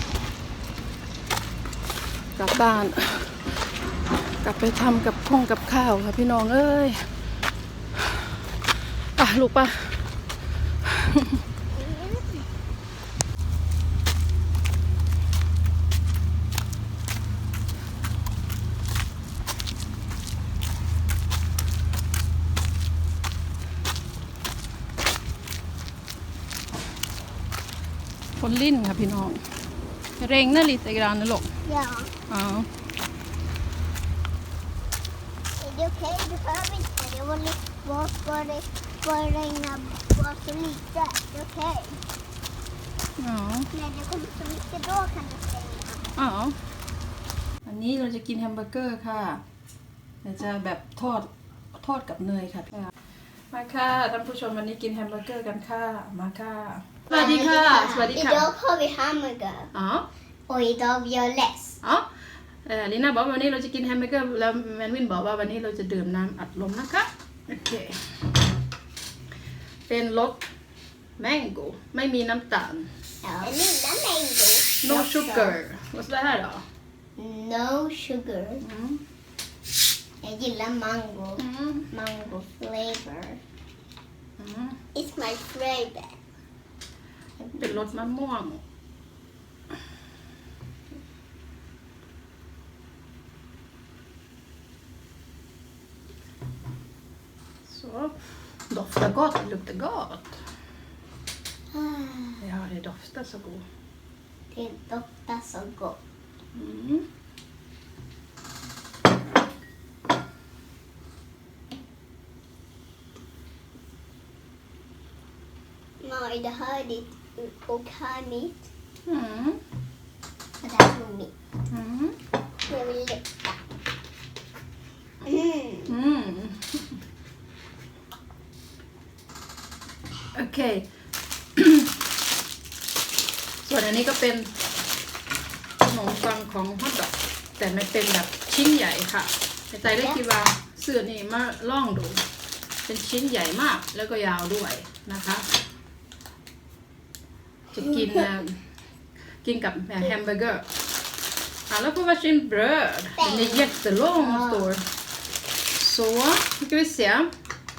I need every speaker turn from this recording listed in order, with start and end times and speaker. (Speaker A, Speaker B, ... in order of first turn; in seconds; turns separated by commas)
Speaker A: 2.4-3.6, Speaker A: 4.4-7.1, Speaker A: 9.2-10.2, Speaker A: 10.8-11.4, Speaker A: 28.4-29.4, Speaker A: 30.2-31.5, Speaker B: 31.6-32.1, Speaker A: 32.3-32.7, Speaker B: 35.6-42.0, Speaker A: 43.2-43.7, Speaker B: 43.7-46.1, Speaker A: 46.1-46.6, Speaker A: 47.6-49.4, Speaker A: 50.2-52.9, Speaker A: 53.5-58.5, Speaker B: 57.1-59.7, Speaker A: 59.7-60.0, Speaker B: 60.5-61.8, Speaker A: 62.6-68.0, Speaker A: 69.9-70.5, Speaker A: 71.2-72.9, Speaker B: 73.2-75.6, Speaker A: 74.8-76.6, Speaker B: 77.2-78.6, Speaker A: 78.6-79.0, Speaker B: 80.2-83.4, Speaker A: 81.4-81.9, Speaker A: 84.4-84.8, Speaker B: 84.9-86.2, Speaker B: 87.4-87.9, Speaker A: 87.5-88.6, Speaker A: 97.7-98.1, Speaker A: 98.7-100.4, Speaker B: 101.7-102.4, Speaker A: 102.4-103.6, Speaker B: 104.5-106.0, Speaker A: 106.5-107.0, Speaker B: 116.0-118.7, Speaker A: 119.0-119.6, Speaker B: 120.6-121.3, Speaker A: 121.7-122.2, Speaker B: 122.7-123.6, Speaker B: 125.2-125.9, Speaker A: 125.9-126.8, Speaker A: 130.3-130.9, Speaker A: 131.6-131.9, Speaker A: 133.6-134.5, Speaker A: 135.8-142.2, Speaker A: 142.8-145.4, Speaker A: 147.7-148.6, Speaker A: 149.4-150.7, Speaker A: 151.7-154.8, Speaker B: 153.2-154.6, Speaker A: 155.7-157.3